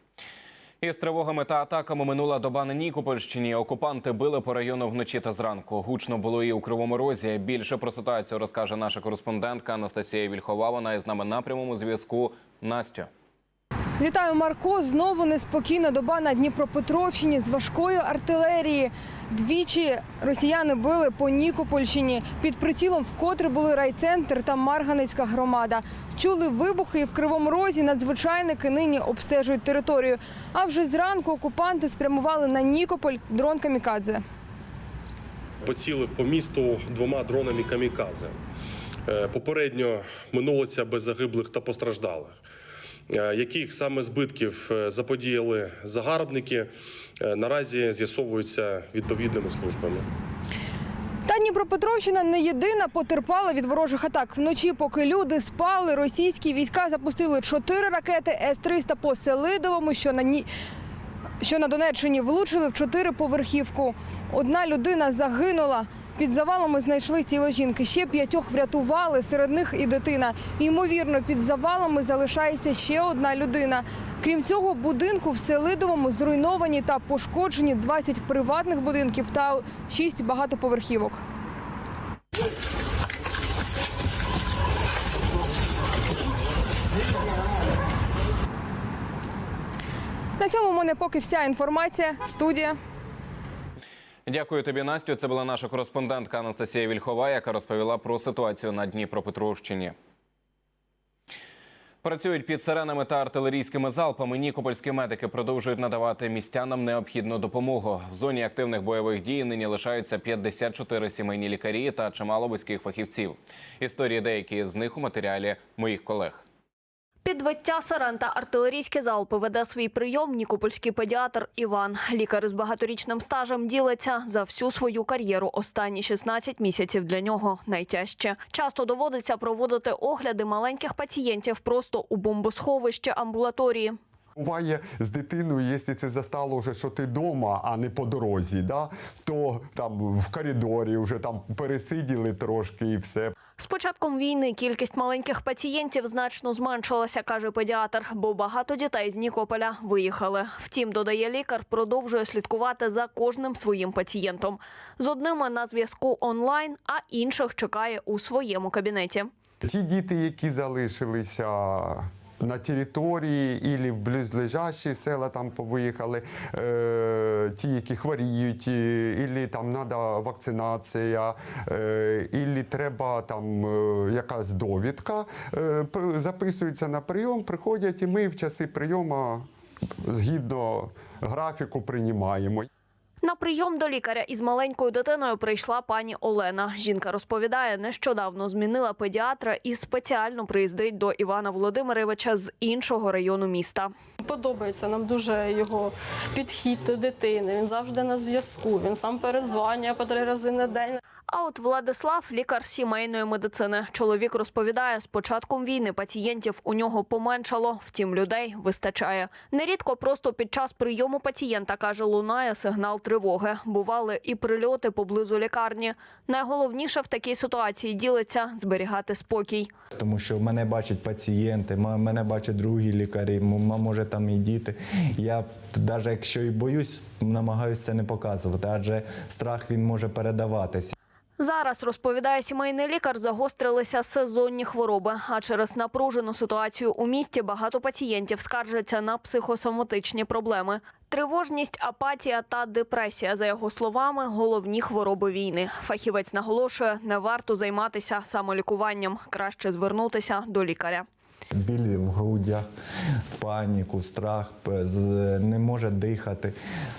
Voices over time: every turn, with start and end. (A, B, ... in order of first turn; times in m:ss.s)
0:00.8-0:13.1 A
0:14.0-0:34.2 B
0:35.6-0:38.3 C
0:39.1-0:42.4 C
0:43.1-0:46.7 C
0:47.2-0:50.0 C
0:51.2-1:00.5 B
1:01.4-1:21.2 B
1:30.4-1:32.8 B
1:34.3-1:39.9 A
1:42.0-1:56.4 A
1:57.2-2:14.0 D
2:14.4-2:23.3 E
2:23.6-2:39.3 D
2:39.6-2:59.5 E
3:00.0-3:02.7 E
3:03.2-3:13.9 D
3:14.2-3:21.0 F
3:21.3-3:39.7 D
3:39.9-3:50.9 G
3:51.4-4:11.0 D
4:11.6-4:12.7 G
4:13.4-4:16.5 G